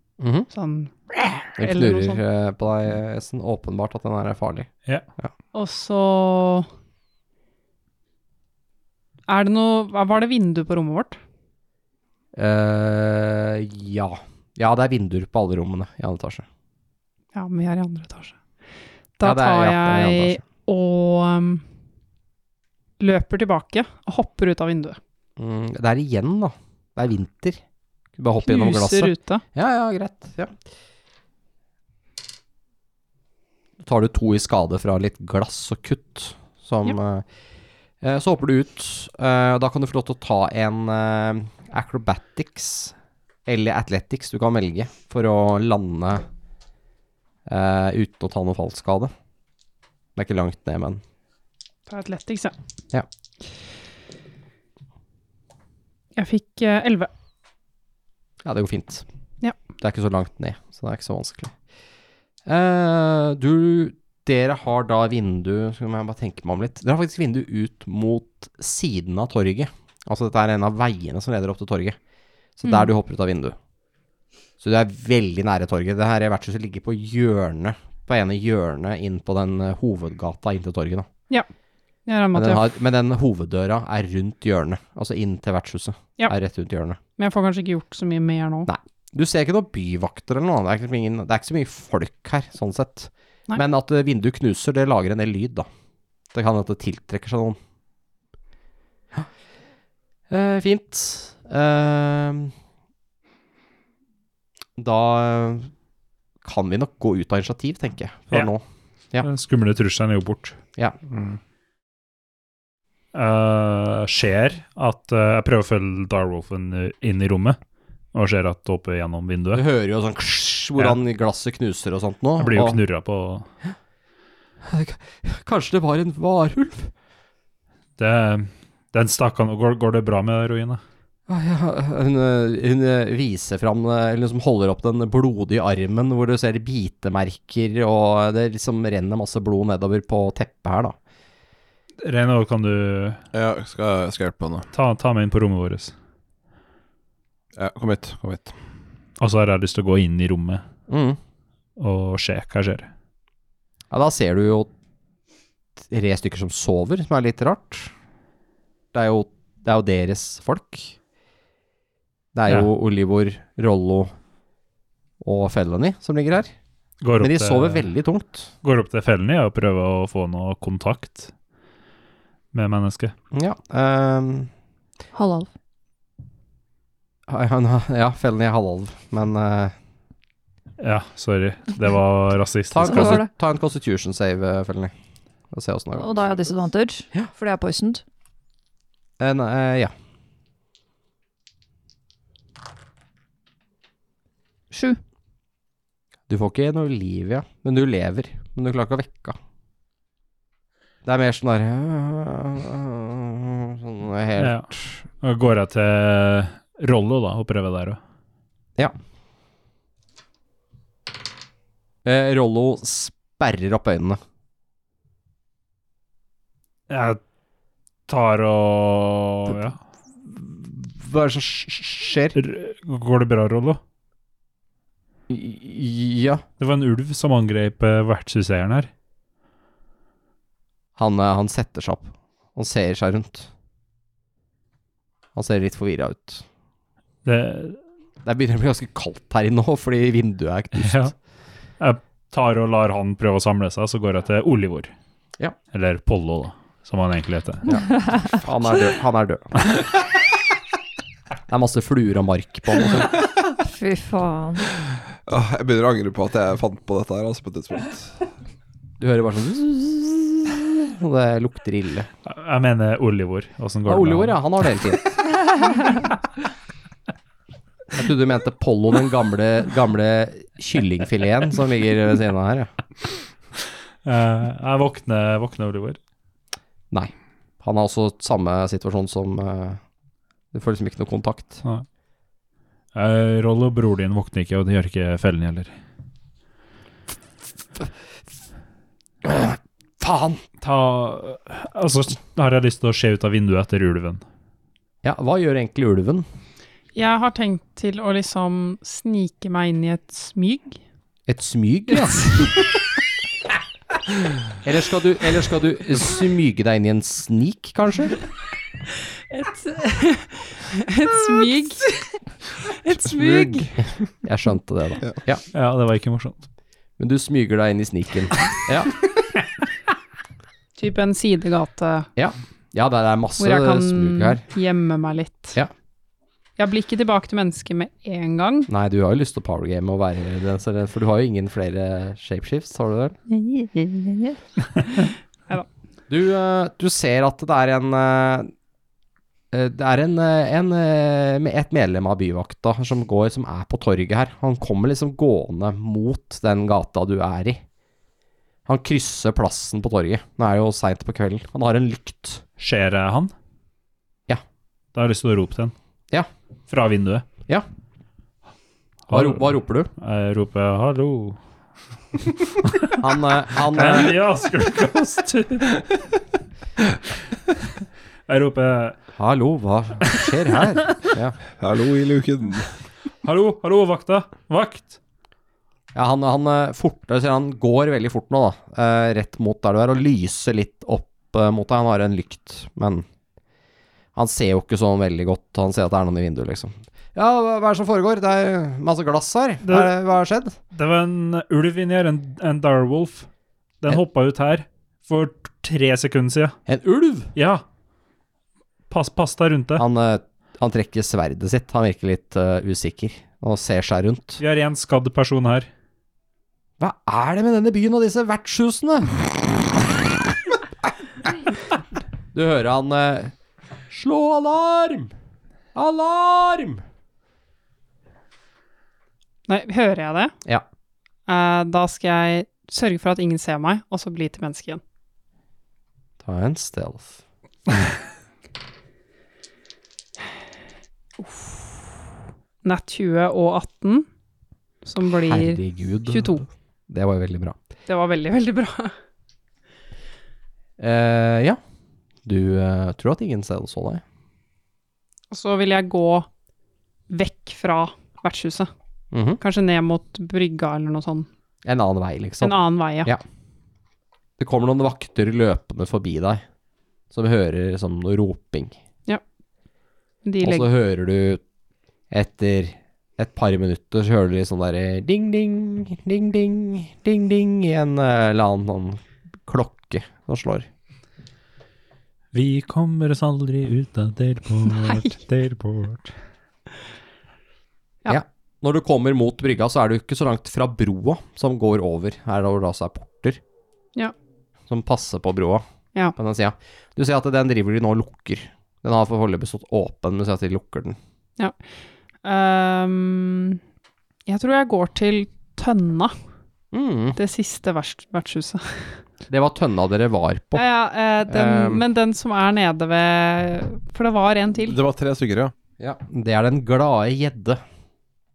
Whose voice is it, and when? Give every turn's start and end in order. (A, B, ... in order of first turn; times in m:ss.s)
0:00.2-0:00.5 A
0:00.5-0:02.2 B
0:01.6-0:05.3 A
0:05.5-0:06.7 B
0:09.3-0:11.2 B
0:12.3-0:16.4 A
0:17.3-0:18.4 B
0:19.2-0:21.6 B
0:19.2-0:20.4 A
0:23.0-0:25.0 B
0:25.4-0:27.6 A
0:28.2-0:30.6 A
0:28.4-0:29.4 B
0:33.8-0:37.2 A
0:38.0-0:42.9 A
0:43.4-0:46.2 A
0:47.5-0:49.1 A
0:50.2-0:51.0 A
0:51.9-0:52.6 B
0:56.2-0:57.1 B
0:58.4-0:59.0 A
0:59.8-1:01.5 A
1:02.4-1:12.0 A
1:12.6-1:13.6 A
1:14.6-1:21.1 A
1:22.0-1:22.7 B
1:22.3-1:27.0 A
1:27.2-1:28.7 B
1:28.7-1:35.7 A
1:36.3-1:37.6 A
1:40.3-1:42.5 A
1:44.8-1:45.7 A
1:46.4-1:49.3 A
1:49.2-1:50.6 C
1:51.1-1:51.4 D
1:53.1-1:57.6 C
1:58.1-1:59.6 C
1:59.5-2:02.8 A
2:02.4-2:03.5 C
2:04.6-2:06.9 A
2:08.0-2:10.8 C
2:11.3-2:21.0 A
2:22.0-2:23.2 C
2:23.3-2:24.7 D
2:24.7-2:25.9 C
2:27.6-2:28.5 D
2:29.2-2:30.6 C
2:30.9-2:31.2 A
2:31.8-2:32.9 C
2:33.9-2:34.7 A
2:35.8-2:37.9 A
2:38.9-2:41.0 A
2:42.3-2:44.1 A
2:45.2-2:46.5 A
2:47.0-2:47.9 C
2:47.2-2:48.5 A
2:48.6-2:51.3 C
2:52.5-2:53.1 C
2:53.3-2:54.5 A
2:55.1-2:55.5 E
2:57.3-2:59.7 A
3:00.8-3:03.2 C
3:02.7-3:04.9 A
3:02.8-3:03.3 E
3:05.5-3:06.2 A
3:06.0-3:08.0 E
3:09.2-3:09.9 A
3:14.7-3:15.0 E
3:16.3-3:19.4 A
3:21.0-3:24.9 A
3:24.4-3:24.7 C
3:25.2-3:28.0 C
3:32.0-3:34.2 A
3:36.9-3:37.2 C
3:38.1-3:39.8 C
3:40.2-3:42.4 A
3:42.4-3:43.8 C
3:45.3-3:46.4 A
3:46.6-3:48.9 C
3:51.0-3:53.5 A
3:55.3-3:56.4 A
3:57.2-3:57.8 C
3:58.2-4:01.1 A
4:00.8-4:01.1 C
4:01.8-4:04.9 C
4:05.7-4:07.7 C
4:07.7-4:09.7 A
4:11.5-4:13.1 A
4:13.5-4:14.7 E
4:15.3-4:18.2 D
4:19.0-4:22.1 A
4:22.2-4:24.4 C
4:23.8-4:25.1 A
4:27.9-4:32.7 A
4:34.0-4:36.0 C
4:36.9-4:39.8 A
4:40.5-4:41.6 A
4:42.9-4:45.7 C
4:49.2-4:50.4 A
4:50.6-4:54.2 C
4:55.0-4:56.2 A
4:56.9-5:00.8 B
5:01.3-5:02.5 A
5:02.2-5:02.5 B
5:04.6-5:08.2 A
5:09.3-5:11.9 B
5:12.8-5:13.6 B
5:13.2-5:13.5 D
5:14.2-5:15.4 A
5:15.5-5:16.5 C
5:17.0-5:19.0 A
5:20.8-5:22.1 B
5:22.2-5:24.4 A
5:23.4-5:25.6 B
5:26.6-5:28.7 B
5:28.7-5:33.2 A
5:33.3-5:35.7 B
5:36.1-5:38.5 A
5:39.5-5:47.6 A
5:48.6-5:52.4 A
5:52.6-5:53.3 C
5:54.9-5:55.7 C
5:56.7-5:57.2 C
5:59.1-6:01.4 C
5:59.1-5:59.9 A
6:02.3-6:03.0 C
6:03.0-6:04.2 A
6:03.7-6:06.0 C
6:08.3-6:09.0 C
6:09.2-6:11.4 A
6:11.6-6:12.7 D
6:13.2-6:15.0 C
6:15.9-6:23.0 A
6:24.1-6:30.6 A
6:29.6-6:29.9 C
6:30.7-6:33.3 C
6:33.8-6:36.6 C
6:36.7-6:37.3 A
6:37.3-6:37.6 C
6:38.9-6:39.8 C
6:39.8-6:44.4 A
6:44.4-6:45.7 C
6:46.8-6:50.1 A
6:52.3-6:53.3 A
6:53.9-6:55.1 A
6:55.7-6:56.8 A
6:59.5-7:00.3 B
7:01.3-7:04.8 B
7:06.2-7:07.2 A
7:11.2-7:11.7 B
7:12.6-7:14.1 B
7:14.8-7:16.4 B
7:15.2-7:17.6 A
7:17.9-7:18.9 B
7:20.8-7:21.6 A
7:22.2-7:24.0 A
7:25.3-7:26.3 B
7:27.1-7:28.7 B
7:29.1-7:29.4 A
7:29.4-7:31.3 B
7:31.6-7:33.2 A
7:32.4-7:33.1 B
7:34.4-7:36.4 A
7:37.1-7:38.8 A
7:40.2-7:40.7 B
7:40.4-7:41.4 A
7:42.1-7:50.7 A
7:52.3-7:56.1 C
7:58.1-8:03.4 A
8:04.7-8:05.6 A
8:06.2-8:11.0 A
8:12.2-8:13.6 B
8:14.3-8:16.1 B
8:16.7-8:17.2 A
8:17.2-8:19.0 B
8:19.3-8:20.6 A
8:20.6-8:24.8 B
8:21.3-8:21.8 A
8:24.7-8:25.5 D
8:25.8-8:27.6 A